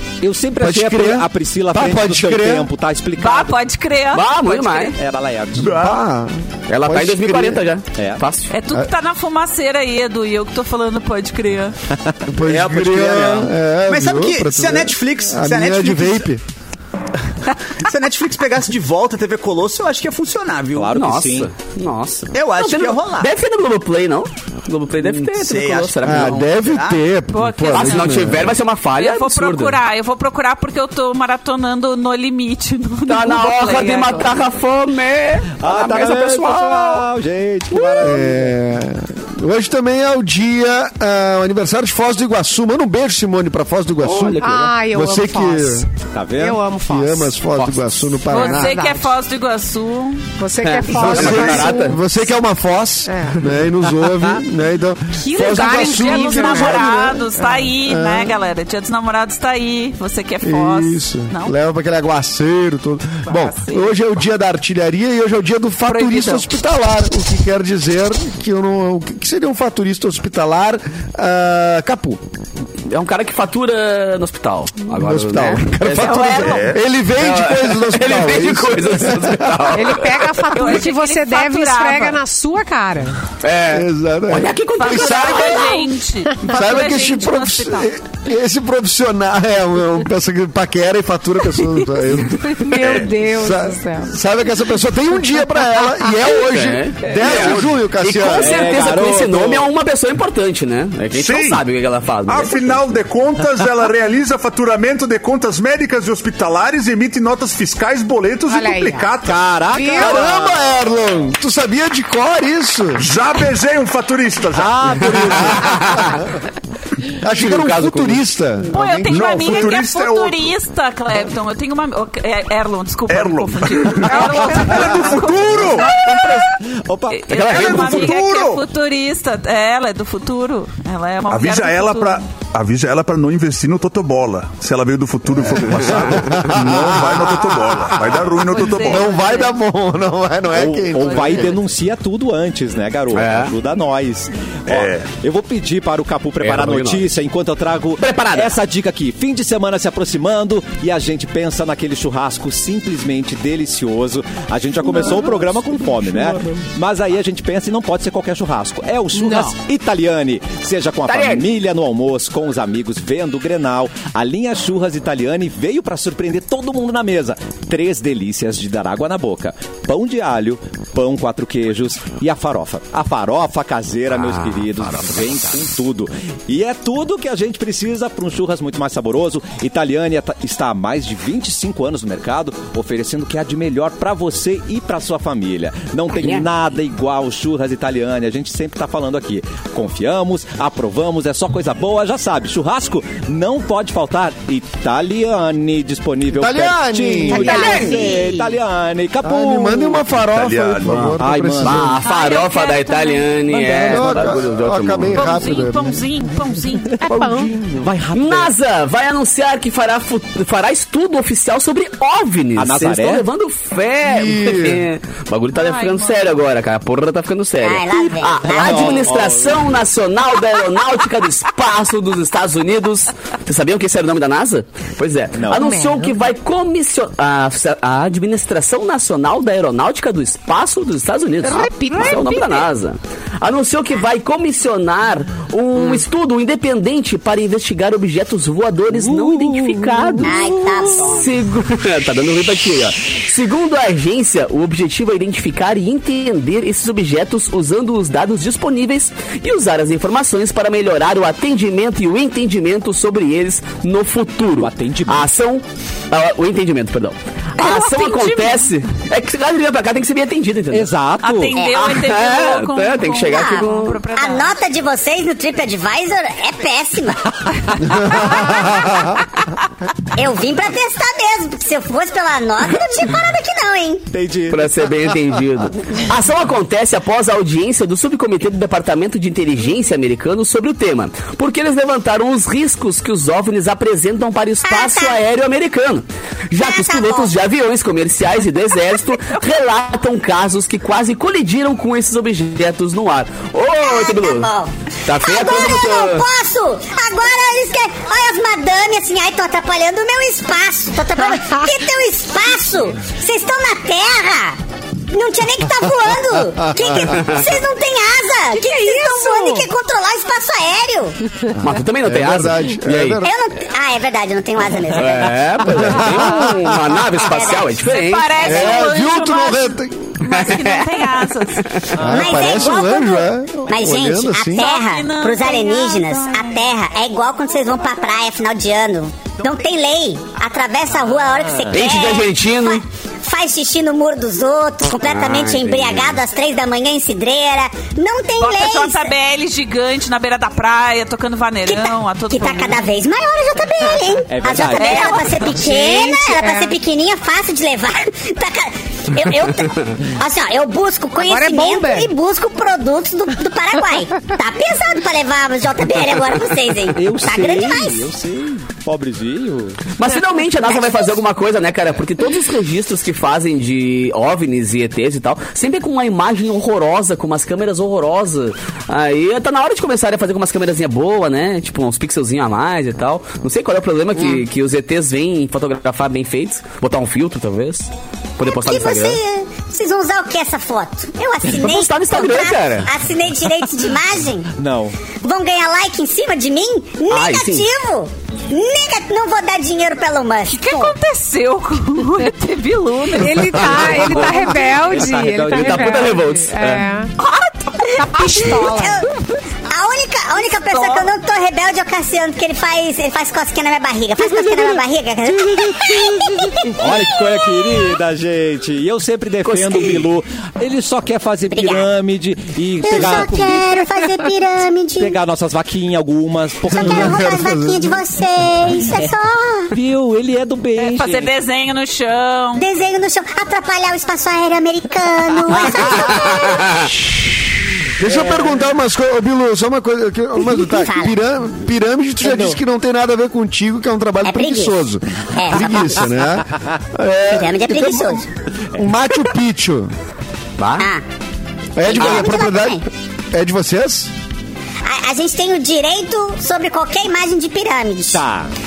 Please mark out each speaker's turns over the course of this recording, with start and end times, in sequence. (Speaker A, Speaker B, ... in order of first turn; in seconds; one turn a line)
Speaker A: 0.2-3.6
Speaker B: 0.6-2.7
Speaker C: 3.2-5.0
Speaker D: 4.1-4.9
Speaker A: 5.0-5.9
Speaker E: 5.6-6.0
Speaker B: 5.7-7.6
Speaker D: 6.7-8.5
Speaker A: 8.0-8.2
Speaker C: 8.5-11.8
Speaker B: 12.3-16.4
Speaker F: 12.4-16.3
Speaker F: 17.8-20.9
Speaker A: 20.7-21.5
Speaker D: 20.9-26.5
Speaker F: 22.3-23.3
Speaker F: 25.1-27.0
Speaker B: 26.0-28.5
Speaker C: 27.3-34.4
Speaker D: 27.7-29.8
Speaker D: 33.1-37.1
Speaker A: 35.6-38.6
Speaker D: 37.7-38.2
Speaker B: 38.0-45.9
Speaker D: 44.0-44.7
Speaker G: 44.3-47.4
Speaker A: 46.1-46.7
Speaker B: 46.9-48.8
Speaker D: 47.6-47.9
Speaker C: 48.3-50.3
Speaker G: 48.3-49.1
Speaker G: 50.4-52.0
Speaker D: 50.6-52.0
Speaker B: 50.9-57.2
Speaker G: 53.1-53.5
Speaker G: 55.2-57.7
Speaker C: 55.4-61.5
Speaker B: 57.8-58.4
Speaker B: 60.4-72.2
Speaker C: 63.2-64.0
Speaker C: 65.9-66.5
Speaker D: 72.8-76.6
Speaker B: 74.9-79.7
Speaker C: 76.0-76.6
Speaker E: 76.4-76.8
Speaker D: 77.2-80.5
Speaker G: 79.7-83.2
Speaker C: 80.5-82.2
Speaker D: 83.4-85.8
Speaker B: 83.7-85.7
Speaker C: 84.8-87.9
Speaker B: 86.4-92.6
Speaker G: 92.5-94.2
Speaker E: 92.7-93.1
Speaker B: 93.2-98.6
Speaker D: 96.2-103.0
Speaker A: 98.3-99.7
Speaker E: 101.1-101.7
Speaker E: 102.3-109.5
Speaker G: 108.5-110.3
Speaker A: 109.2-110.6
Speaker B: 110.0-113.1
Speaker E: 113.0-115.2
Speaker A: 114.5-116.0
Speaker D: 115.4-116.2
Speaker B: 115.7-116.2
Speaker B: 117.2-119.8
Speaker D: 117.3-118.2
Speaker C: 118.7-126.5
Speaker E: 119.1-120.5
Speaker E: 123.1-126.0
Speaker G: 124.1-124.8
Speaker A: 125.6-128.1
Speaker C: 127.1-132.2
Speaker D: 127.3-128.2
Speaker E: 127.3-128.6
Speaker E: 131.3-139.1
Speaker B: 135.4-141.5
Speaker C: 138.5-139.6
Speaker A: 140.5-200.2
Speaker C: 141.0-141.5
Speaker D: 143.1-143.5
Speaker E: 144.7-145.1
Speaker D: 146.4-147.1
Speaker D: 148.0-148.6
Speaker G: 154.8-155.5
Speaker G: 159.1-159.6
Speaker D: 161.1-161.5
Speaker D: 174.3-175.1
Speaker D: 186.2-186.5
Speaker B: 196.3-197.7
Speaker G: 197.3-198.5
Speaker H: 197.3-198.3
Speaker B: 199.2-202.0
Speaker E: 200.3-201.2
Speaker D: 200.9-205.4
Speaker A: 201.2-202.0
Speaker C: 202.0-203.5
Speaker A: 203.5-204.4
Speaker B: 203.8-206.0
Speaker C: 205.1-207.1
Speaker G: 207.0-207.5
Speaker A: 207.1-208.5
Speaker D: 208.1-260.9
Speaker A: 212.6-213.3
Speaker B: 214.0-214.9
Speaker C: 215.5-216.4
Speaker H: 217.6-219.1
Speaker A: 218.5-219.8
Speaker A: 225.3-225.7
Speaker G: 225.5-226.2
Speaker G: 231.4-232.7
Speaker G: 239.1-240.4
Speaker H: 240.2-241.3
Speaker A: 254.6-255.3
Speaker C: 257.6-258.7
Speaker A: 260.7-261.6
Speaker C: 261.2-264.6
Speaker H: 261.6-262.0
Speaker D: 261.7-263.9
Speaker H: 263.2-268.8
Speaker B: 267.9-269.1
Speaker H: 270.1-274.1
Speaker A: 274.1-274.9
Speaker D: 274.5-294.5
Speaker H: 284.6-285.2
Speaker H: 286.6-287.3
Speaker H: 293.8-304.6
Speaker D: 295.1-296.3
Speaker H: 305.1-311.2
Speaker B: 306.8-307.0
Speaker D: 307.1-307.5
Speaker G: 308.5-309.7
Speaker D: 311.6-313.2
Speaker B: 311.9-313.4
Speaker H: 313.2-317.9
Speaker D: 314.9-318.3
Speaker B: 315.6-316.8
Speaker C: 317.9-321.9
Speaker H: 318.4-318.9
Speaker B: 318.4-320.3
Speaker D: 320.3-320.8
Speaker B: 322.0-324.7
Speaker H: 322.1-339.1
Speaker C: 324.6-326.6
Speaker D: 331.7-332.8
Speaker A: 335.2-336.1
Speaker D: 335.7-336.0
Speaker C: 338.4-342.8
Speaker H: 341.7-358.1
Speaker A: 344.3-345.4
Speaker C: 344.8-345.7
Speaker G: 345.5-346.8
Speaker G: 351.2-352.1
Speaker A: 356.9-359.8
Speaker D: 360.0-379.2
Speaker H: 360.6-361.2
Speaker H: 374.2-374.4
Speaker H: 378.4-384.5
Speaker D: 381.5-382.9
Speaker A: 384.6-385.0
Speaker H: 385.1-390.9
Speaker D: 387.1-387.7
Speaker C: 390.5-394.6
Speaker G: 393.1-397.1
Speaker A: 393.9-396.1
Speaker D: 395.5-396.9
Speaker C: 397.2-397.9
Speaker H: 397.9-399.2
Speaker G: 398.0-399.0
Speaker H: 399.7-407.9
Speaker C: 400.7-401.1
Speaker A: 405.5-413.8
Speaker D: 409.4-409.9
Speaker H: 411.5-411.9
Speaker H: 412.8-415.2
Speaker A: 415.0-417.3
Speaker H: 416.7-419.7
Speaker B: 416.7-418.0
Speaker A: 419.7-421.3
Speaker C: 420.8-422.7
Speaker H: 422.6-426.9
Speaker A: 425.5-426.0
Speaker D: 426.6-426.9
Speaker B: 428.0-438.2
Speaker A: 428.3-428.5
Speaker H: 430.4-431.1
Speaker A: 432.2-432.6
Speaker H: 434.2-434.8
Speaker H: 435.3-436.1
Speaker A: 436.5-436.8
Speaker H: 437.3-438.3
Speaker B: 438.8-439.9
Speaker D: 440.6-440.9
Speaker B: 441.8-444.1
Speaker H: 441.8-442.8
Speaker H: 444.8-448.2
Speaker A: 448.1-448.5